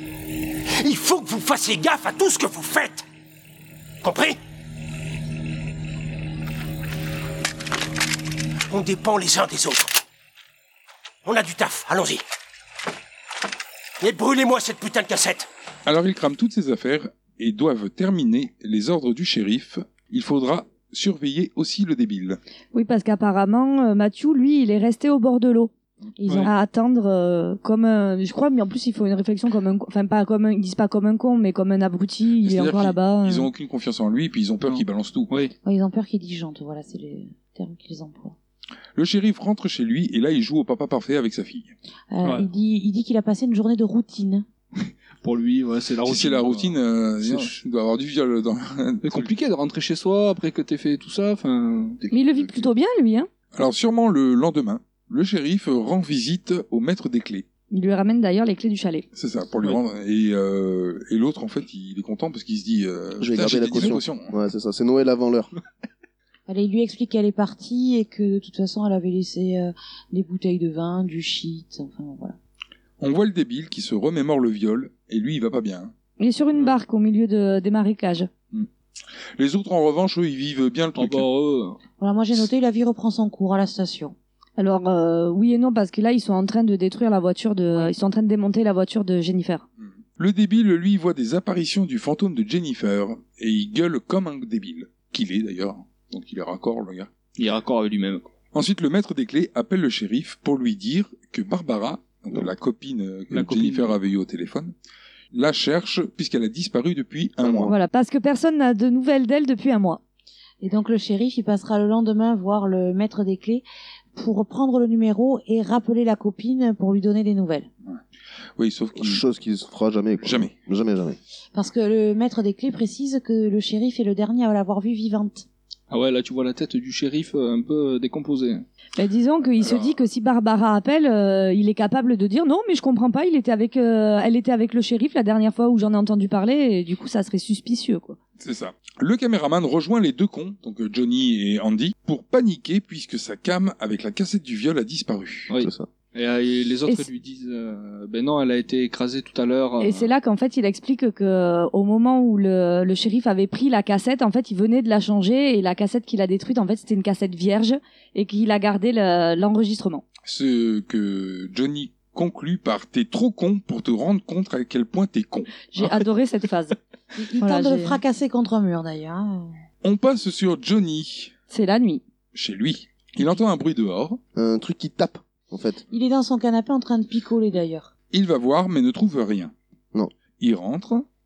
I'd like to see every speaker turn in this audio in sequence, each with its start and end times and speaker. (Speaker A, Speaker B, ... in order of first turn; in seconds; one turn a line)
Speaker A: 0.8-3.0
Speaker A: 4.0-4.4
Speaker A: 8.7-9.9
Speaker A: 11.2-12.2
Speaker A: 14.0-15.5
Speaker B: 15.9-22.4
Speaker C: 22.7-25.7
Speaker D: 26.2-26.5
Speaker C: 26.4-33.5
Speaker B: 32.4-35.3
Speaker E: 34.6-35.5
Speaker D: 35.6-38.4
Speaker B: 39.0-41.7
Speaker D: 42.1-44.5
Speaker E: 42.2-42.5
Speaker E: 44.8-47.5
Speaker B: 46.0-49.3
Speaker E: 49.0-52.0
Speaker F: 52.0-52.7
Speaker C: 52.1-53.3
Speaker B: 53.5-57.5
Speaker C: 57.7-59.1
Speaker B: 59.1-64.3
Speaker F: 63.2-65.5
Speaker D: 66.5-72.4
Speaker B: 73.0-75.9
Speaker C: 76.2-78.3
Speaker B: 79.4-81.3
Speaker E: 81.0-81.8
Speaker D: 82.0-84.2
Speaker C: 84.6-89.6
Speaker B: 89.8-97.1
Speaker E: 97.4-98.3
Speaker B: 98.5-104.7
Speaker E: 103.3-104.0
Speaker B: 105.3-107.7
Speaker F: 107.4-107.8
Speaker C: 107.7-110.0
Speaker D: 110.6-117.7
Speaker B: 118.6-119.2
Speaker F: 119.0-121.2
Speaker B: 120.2-120.5
Speaker D: 121.5-125.5
Speaker E: 125.9-128.7
Speaker C: 129.0-138.2
Speaker B: 129.6-129.9
Speaker B: 138.4-145.5
Speaker E: 145.5-150.1
Speaker F: 145.6-145.9
Speaker C: 149.8-160.0
Speaker B: 160.2-165.6
Speaker C: 165.7-166.8
Speaker D: 167.2-169.5
Speaker C: 167.4-168.0
Speaker B: 169.8-171.3
Speaker C: 171.5-172.0
Speaker B: 172.3-174.2
Speaker F: 174.3-175.8
Speaker D: 175.9-177.9
Speaker B: 178.1-179.5
Speaker B: 180.4-181.1